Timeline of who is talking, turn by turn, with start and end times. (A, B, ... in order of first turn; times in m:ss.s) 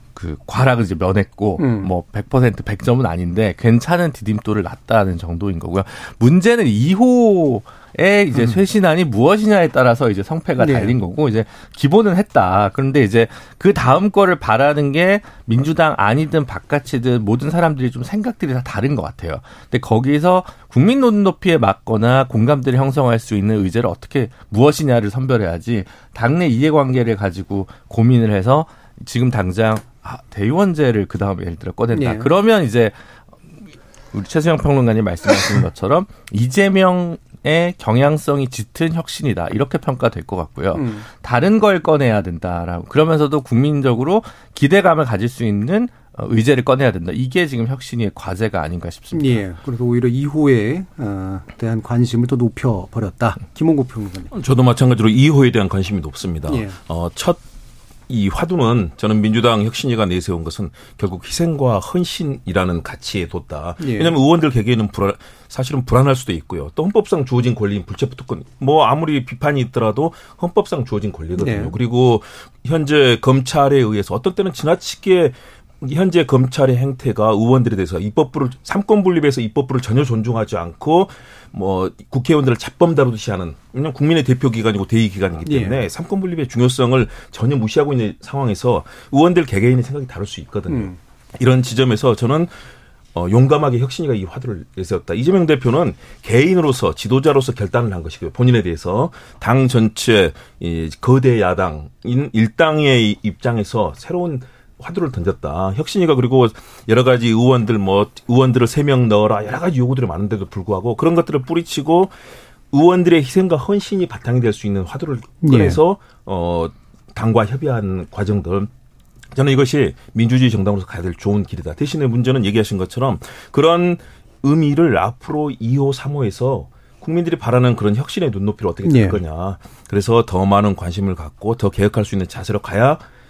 0:00.2-0:32.9 A
0:01.6-0:01.9 B
0:10.6-0:10.9 B
0:31.9-0:32.3 B
0:34.1-0:49.4 A
0:40.7-0:41.0 B
0:49.1-0:54.3 B
0:54.3-0:57.4 C
0:56.5-0:56.8 B
0:58.1-1:32.5 C
1:03.8-1:04.1 B
1:11.4-1:11.8 B
1:25.4-1:25.8 B
1:33.1-1:52.1 C
1:52.7-1:58.7 C
1:55.4-1:55.8 B
1:59.3-2:13.0 C
2:08.8-2:09.2 B